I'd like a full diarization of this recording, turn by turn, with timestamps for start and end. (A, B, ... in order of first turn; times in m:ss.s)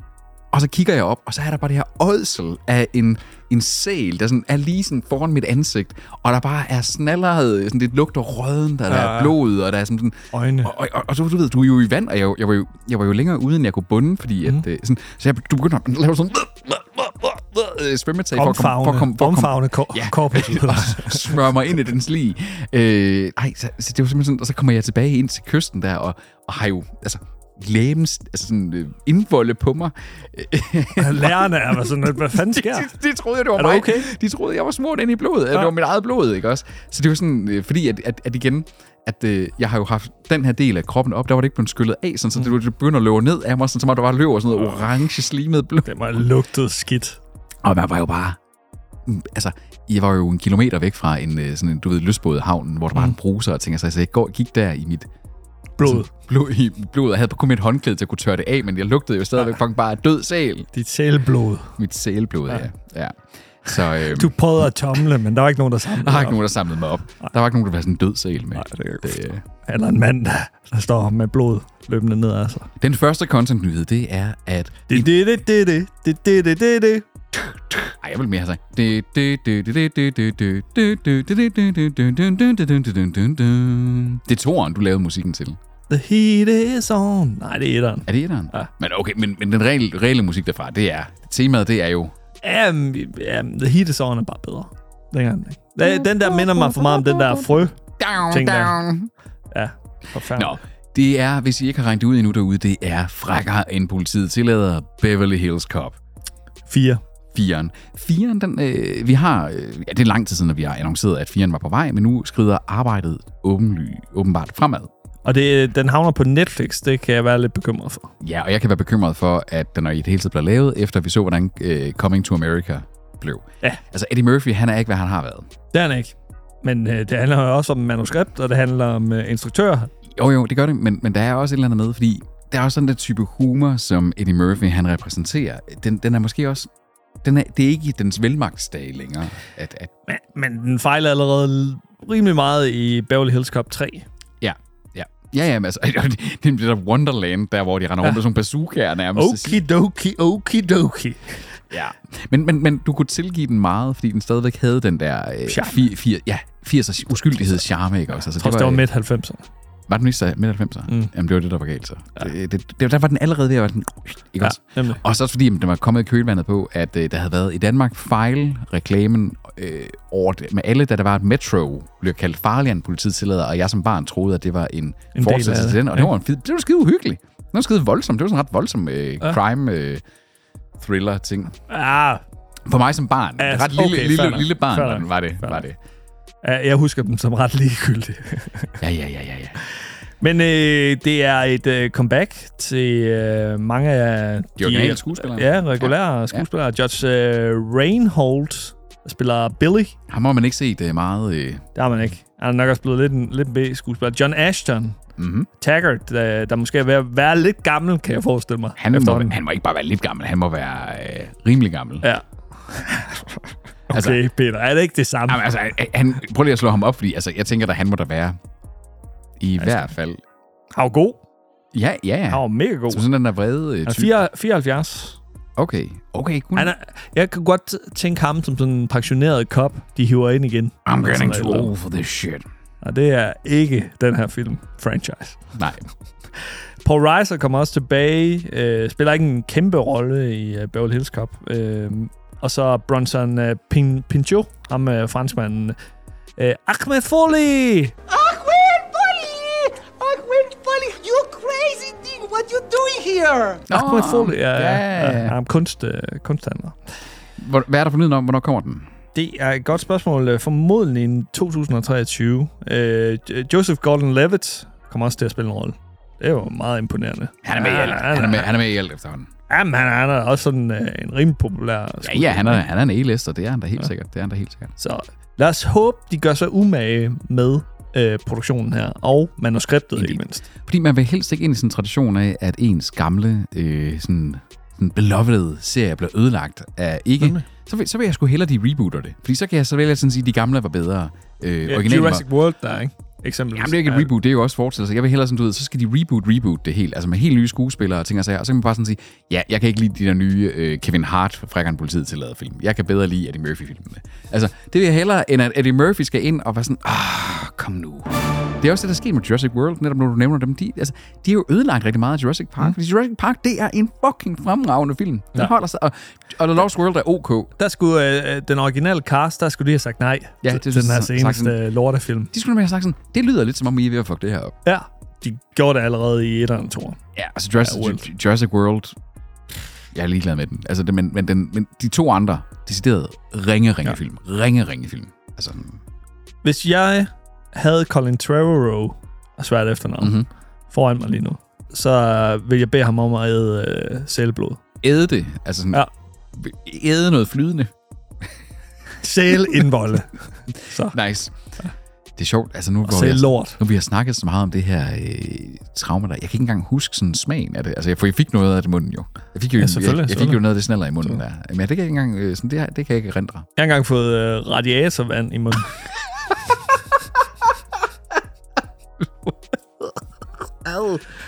0:00.5-0:46.2 A
0:08.9-0:09.4 B
0:10.3-0:10.7 B
0:18.4-0:21.4 B
0:31.0-0:32.9 B
0:33.6-0:34.1 B
0:45.8-0:47.2 B
0:47.6-0:48.4 A
0:49.1-0:55.1 A
0:55.8-0:56.1 B
0:55.8-1:00.7 A
1:00.7-1:01.7 B
1:01.8-1:04.4 A
1:04.0-1:06.4 B
1:05.9-1:09.4 A
1:08.6-1:12.7 B
1:12.8-1:15.1 A
1:14.9-1:17.1 B
1:17.3-1:25.6 A
1:25.9-1:28.7 B
1:28.1-1:32.1 A
1:32.4-1:37.8 B
1:35.8-1:39.1 A
1:38.3-1:38.8 B
1:39.5-1:40.6 B
1:40.3-1:46.0 A
1:46.7-1:47.0 B
1:47.3-1:54.9 A
1:55.2-1:58.1 B
1:58.2-2:05.5 A
2:05.7-2:09.9 B
2:10.1-2:16.7 A
2:17.2-2:19.9 A
2:20.1-2:24.1 B
2:24.4-2:29.6 A
2:29.1-2:31.5 B
2:31.7-2:38.9 A
2:35.5-2:35.9 B
2:38.4-2:39.5 B
2:39.9-3:00.0 A
2:44.4-2:45.0 B
2:55.1-2:56.1 B
3:00.8-3:01.6 A
3:01.7-3:02.2 B
3:02.6-3:05.8 A
3:03.4-3:05.6 B
3:06.4-3:08.8 B
3:08.8-3:09.6 A
3:10.2-3:19.9 B
3:14.6-3:16.5 A
3:20.1-3:21.6 A
3:21.8-3:25.0 B
3:25.2-3:25.5 A
3:25.6-3:29.4 B
3:28.8-3:32.1 A
3:32.0-3:35.4 B
3:33.9-3:34.2 A
3:35.3-3:38.4 A
3:39.4-3:40.2 A
3:39.6-3:39.9 B
3:40.7-3:41.2 B
3:41.7-3:44.2 A
3:42.3-3:43.0 B
3:43.8-3:45.2 B
3:45.6-3:46.7 A
3:46.6-3:51.7 B
3:50.9-3:52.4 A
3:52.8-3:55.4 B
3:55.6-3:55.9 A
3:56.4-4:05.8 B
4:06.4-4:07.9 B
4:08.1-4:13.6 C
4:13.7-4:15.4 A
4:13.7-4:16.8 B
4:17.4-4:18.9 A
4:19.1-4:28.5 B
4:27.4-4:29.3 A
4:29.5-4:32.6 B
4:32.0-4:34.7 A
4:34.8-4:40.4 B
4:39.9-4:52.3 A
4:47.2-4:47.4 B
4:51.7-4:54.1 B
4:53.5-5:17.5 A
5:17.6-5:22.3 B
5:20.4-5:21.6 A
5:22.3-5:24.6 A
5:24.6-5:27.0 B
5:27.1-5:28.9 A
5:27.6-5:28.0 B
5:29.5-5:35.8 A
5:36.4-5:40.1 B
5:40.0-5:40.3 A
5:40.7-5:44.6 B
5:44.8-5:47.7 A
5:49.0-5:51.0 B
5:50.8-5:51.4 A
5:52.2-6:03.4 A
5:52.8-5:53.6 B
5:59.6-6:00.4 B
6:03.6-6:05.7 B
6:09.0-6:09.3 A
6:10.6-6:11.0 A